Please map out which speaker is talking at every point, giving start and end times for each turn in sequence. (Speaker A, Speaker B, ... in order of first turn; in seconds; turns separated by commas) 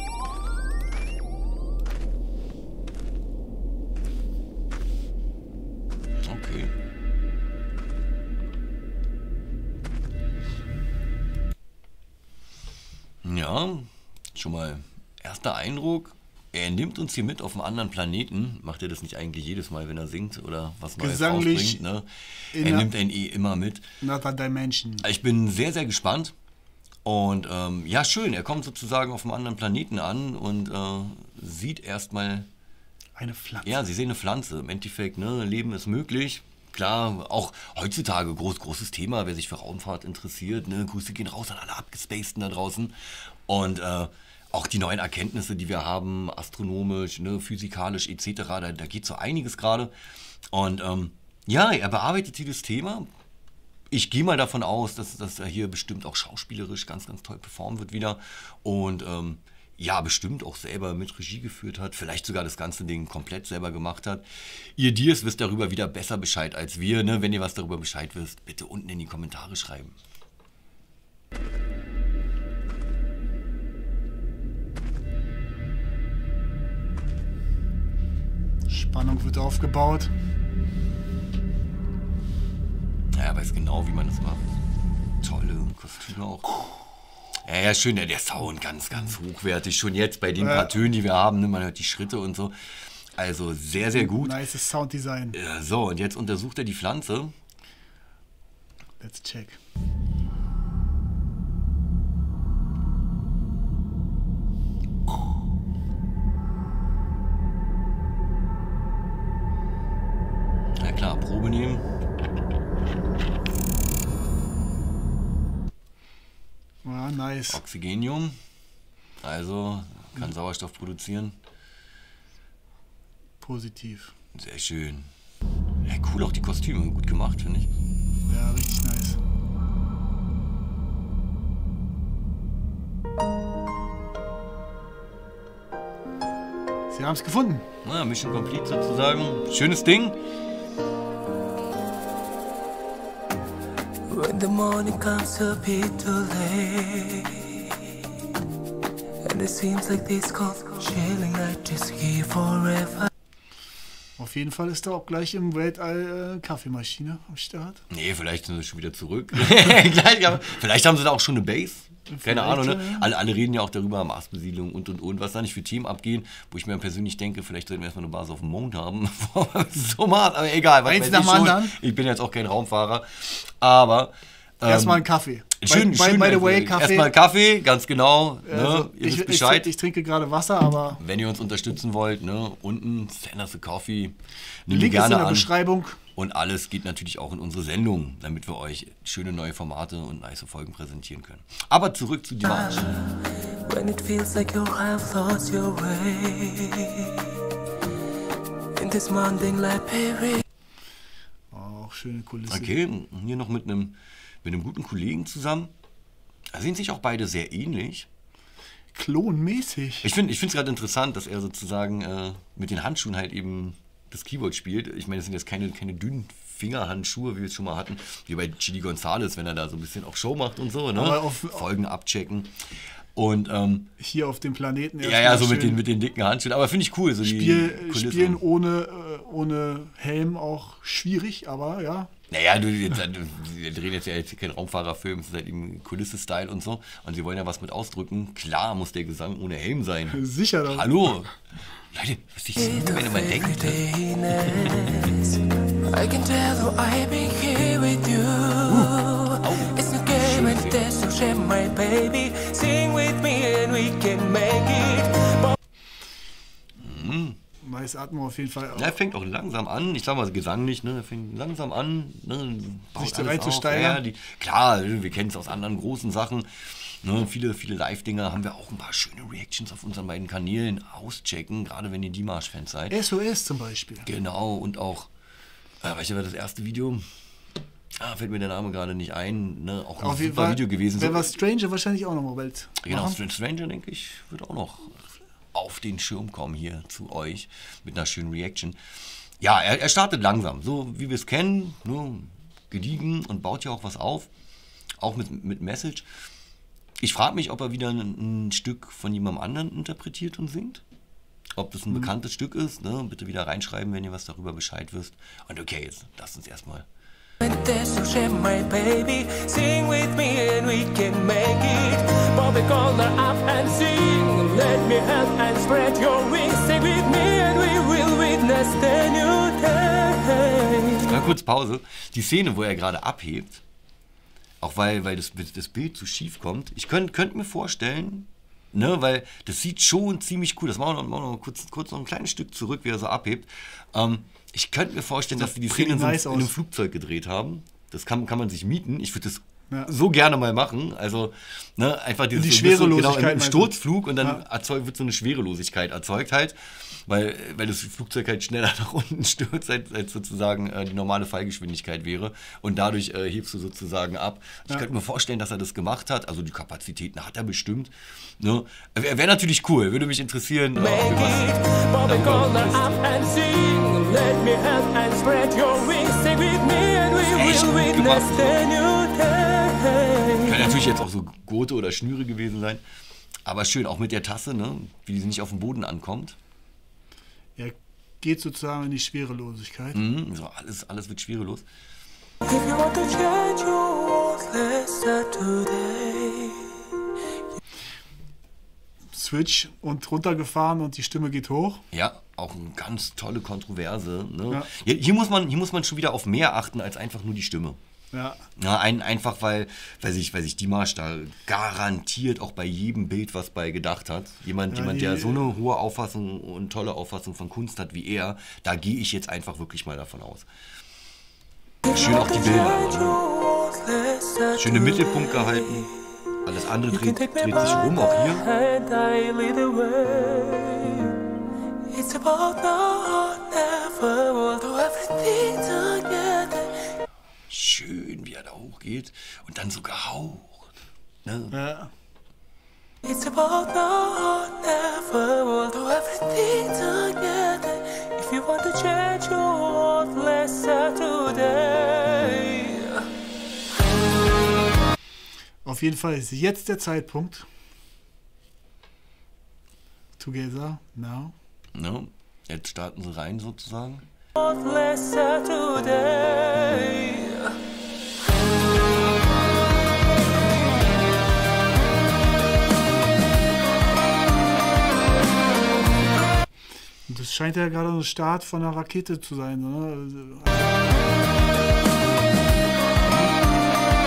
Speaker A: 6.2-6.7, Speaker A: 13.2-23.8, Speaker B: 21.0-21.8, Speaker B: 22.5-22.9, Speaker B: 24.0-25.1, Speaker A: 25.0-26.3, Speaker A: 27.0-32.5, Speaker B: 33.2-33.8, Speaker A: 33.6-42.9, Speaker A: 43.5-49.9, Speaker A: 50.5-53.0, Speaker A: 53.9-70.0, Speaker B: 78.7-80.1, Speaker A: 83.1-84.5, Speaker A: 85.2-86.6, Speaker A: 87.4-92.5, Speaker B: 90.4-90.7, Speaker A: 93.1-94.4, Speaker B: 93.9-95.4, Speaker A: 95.3-97.3, Speaker B: 99.0-99.6, Speaker A: 110.8-111.8, Speaker B: 116.8-117.6, Speaker A: 117.5-118.4, Speaker A: 119.2-121.3, Speaker B: 123.4-124.1, Speaker A: 124.3-125.1, Speaker A: 125.8-127.7, Speaker B: 128.3-129.2, Speaker B: 136.9-137.6, Speaker A: 137.8-140.2, Speaker C: 144.1-148.0, Speaker C: 149.2-153.1, Speaker B: 154.2-157.8, Speaker A: 157.9-175.0, Speaker B: 162.1-163.1, Speaker B: 170.8-171.8, Speaker B: 174.6-177.1, Speaker A: 175.6-179.7, Speaker B: 178.4-181.0, Speaker A: 181.0-185.5, Speaker B: 184.7-186.0, Speaker A: 186.2-193.1, Speaker C: 192.5-197.5, Speaker C: 198.7-200.4, Speaker B: 201.5-202.7, Speaker A: 202.5-205.7, Speaker A: 206.5-208.1, Speaker B: 208.9-210.1, Speaker A: 210.0-222.5, Speaker B: 220.9-221.6, Speaker A: 223.1-223.9, Speaker B: 224.0-225.8, Speaker A: 225.0-228.4, Speaker B: 227.2-232.1, Speaker A: 232.3-241.3, Speaker B: 240.1-241.0, Speaker A: 241.9-243.8, Speaker C: 242.6-255.6, Speaker A: 244.5-245.1, Speaker A: 248.7-250.8, Speaker A: 256.8-257.4, Speaker B: 257.6-258.9, Speaker A: 258.7-273.0, Speaker B: 263.0-264.0, Speaker B: 272.9-274.1, Speaker A: 274.1-275.1, Speaker A: 275.8-277.0, Speaker A: 278.0-281.3, Speaker B: 280.0-283.2, Speaker A: 282.8-288.8, Speaker A: 289.4-294.3, Speaker A: 295.0-296.1, Speaker A: 297.0-300.8, Speaker A: 301.5-306.9, Speaker C: 307.4-321.2, Speaker A: 321.1-323.6, Speaker A: 324.6-363.0, Speaker B: 335.3-336.5, Speaker B: 342.3-344.4, Speaker C: 360.8-370.7, Speaker A: 367.2-368.6, Speaker A: 370.4-372.8, Speaker A: 373.4-376.4, Speaker B: 377.6-380.0, Speaker A: 379.9-381.6, Speaker C: 382.4-386.8, Speaker B: 389.1-391.8, Speaker A: 391.9-397.8, Speaker B: 398.1-398.4, Speaker A: 398.6-410.5, Speaker B: 404.7-405.4, Speaker C: 411.8-416.0, Speaker A: 411.9-413.2, Speaker A: 414.6-415.9, Speaker A: 416.4-418.4, Speaker C: 416.9-421.2, Speaker C: 421.9-426.9, Speaker A: 427.5-430.7, Speaker A: 431.2-431.5, Speaker B: 431.5-431.9, Speaker C: 433.0-443.1, Speaker B: 445.6-447.5, Speaker B: 450.2-451.3, Speaker A: 451.7-454.1, Speaker C: 454.4-457.6, Speaker B: 467.1-471.1, Speaker A: 473.0-473.4